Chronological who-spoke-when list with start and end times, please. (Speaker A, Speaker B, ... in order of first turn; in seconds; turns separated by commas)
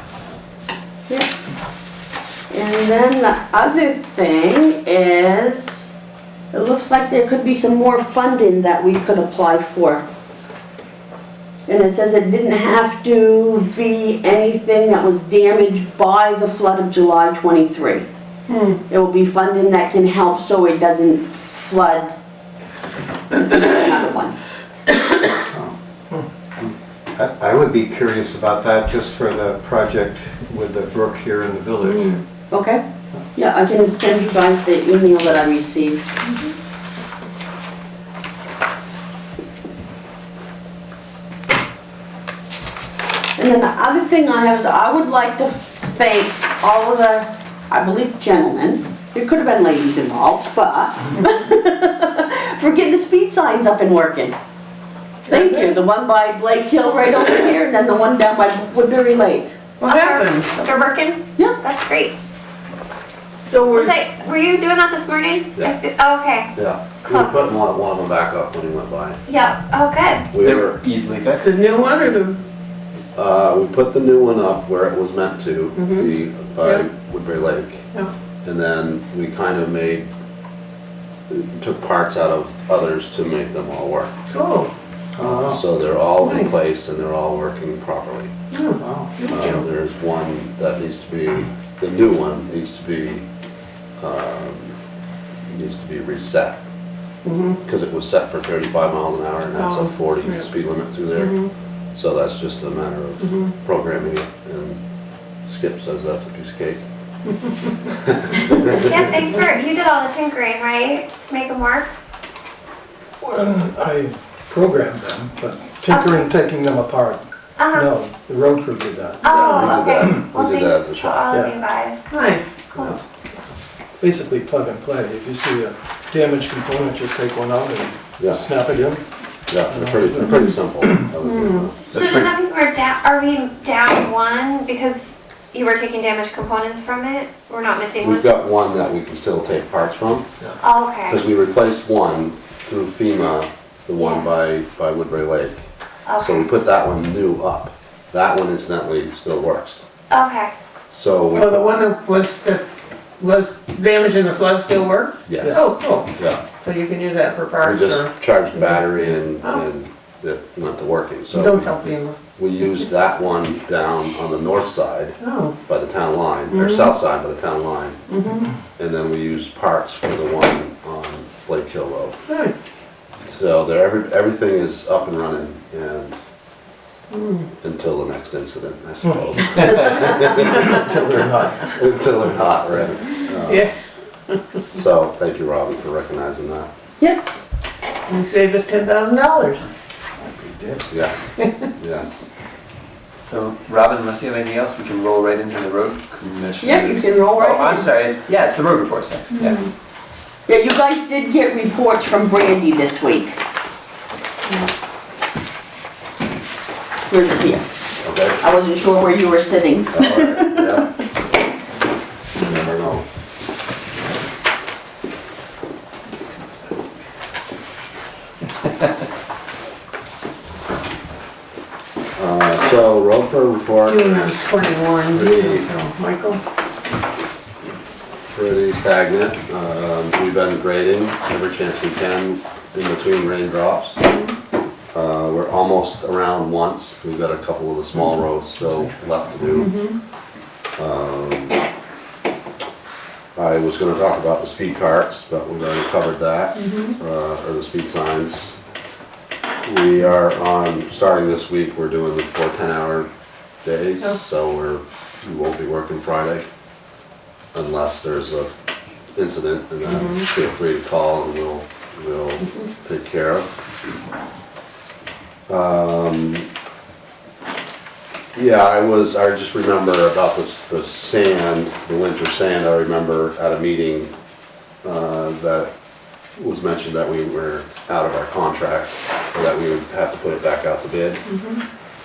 Speaker A: 2.5-5.9, Speaker A: 6.5-10.1, Speaker A: 11.7-18.1, Speaker B: 18.5-18.8, Speaker A: 18.9-22.1, Speaker A: 23.3-24.4, Speaker C: 26.6-32.2, Speaker B: 31.9-32.2, Speaker A: 32.5-32.8, Speaker A: 33.3-36.1, Speaker A: 43.4-54.4, Speaker B: 55.3-55.8, Speaker A: 55.3-59.5, Speaker B: 59.8-60.9, Speaker D: 59.8-62.1, Speaker B: 63.5-64.0, Speaker D: 63.7-66.5, Speaker E: 65.6-65.8, Speaker E: 66.5-69.2, Speaker D: 67.1-67.5, Speaker D: 69.3-70.3, Speaker E: 70.3-70.8, Speaker F: 70.3-71.5, Speaker B: 71.4-72.4, Speaker E: 73.2-77.9, Speaker B: 75.8-76.1, Speaker E: 78.4-80.1, Speaker E: 81.3-84.1, Speaker B: 84.3-84.7, Speaker E: 85.2-88.3, Speaker B: 85.2-85.6, Speaker B: 86.2-86.5, Speaker B: 88.5-89.6, Speaker E: 89.3-93.2, Speaker E: 94.0-94.7, Speaker E: 95.5-96.6, Speaker B: 97.2-97.6, Speaker E: 97.7-101.4, Speaker B: 99.6-100.5, Speaker B: 101.2-101.5, Speaker E: 102.0-104.8, Speaker B: 103.2-103.5, Speaker E: 105.5-106.8, Speaker E: 108.0-109.0, Speaker D: 108.8-111.9, Speaker G: 113.2-120.2, Speaker D: 115.9-116.2, Speaker D: 117.6-117.9, Speaker D: 119.2-122.1, Speaker B: 119.2-119.8, Speaker E: 119.4-121.2, Speaker G: 121.3-121.6, Speaker B: 122.1-123.0, Speaker G: 124.0-129.0, Speaker E: 129.5-132.3, Speaker G: 129.7-131.1, Speaker B: 131.2-131.7, Speaker D: 131.9-138.3, Speaker E: 138.0-140.3, Speaker D: 140.6-141.2, Speaker E: 141.1-145.7, Speaker D: 144.0-144.3, Speaker D: 146.1-146.5, Speaker E: 146.2-149.9, Speaker D: 150.1-150.5, Speaker E: 150.9-151.7, Speaker B: 151.3-152.6, Speaker B: 153.2-159.6, Speaker E: 155.3-155.6, Speaker E: 156.2-156.4, Speaker E: 157.6-161.8, Speaker B: 161.3-162.2, Speaker E: 162.4-165.2, Speaker B: 165.2-165.6, Speaker E: 165.7-168.0, Speaker B: 166.5-166.9, Speaker B: 168.1-168.5, Speaker E: 168.8-172.2, Speaker B: 172.3-172.6, Speaker E: 173.3-176.2, Speaker B: 177.1-177.5, Speaker E: 177.6-183.7, Speaker B: 179.6-180.8, Speaker G: 180.4-181.7, Speaker B: 183.5-183.7, Speaker E: 184.8-186.7, Speaker A: 187.0-187.3, Speaker B: 188.1-189.7, Speaker E: 190.9-191.2, Speaker E: 191.8-192.3, Speaker F: 193.2-199.6, Speaker A: 196.6-197.9, Speaker A: 200.5-203.4, Speaker A: 207.1-207.7, Speaker E: 208.0-208.4, Speaker A: 208.4-210.7, Speaker E: 209.9-210.9, Speaker E: 212.4-213.0, Speaker E: 222.2-224.4, Speaker B: 223.9-226.4, Speaker E: 225.1-225.7, Speaker E: 228.3-234.0, Speaker E: 234.9-239.8, Speaker B: 239.6-239.9, Speaker E: 240.8-241.6, Speaker E: 243.4-248.5, Speaker B: 246.6-247.0, Speaker E: 249.6-253.1, Speaker E: 253.6-256.5, Speaker E: 257.5-258.5, Speaker E: 259.1-263.5, Speaker B: 259.9-260.2, Speaker E: 265.5-266.5, Speaker E: 268.4-274.1, Speaker E: 274.8-275.7, Speaker E: 276.4-281.2, Speaker B: 281.3-281.6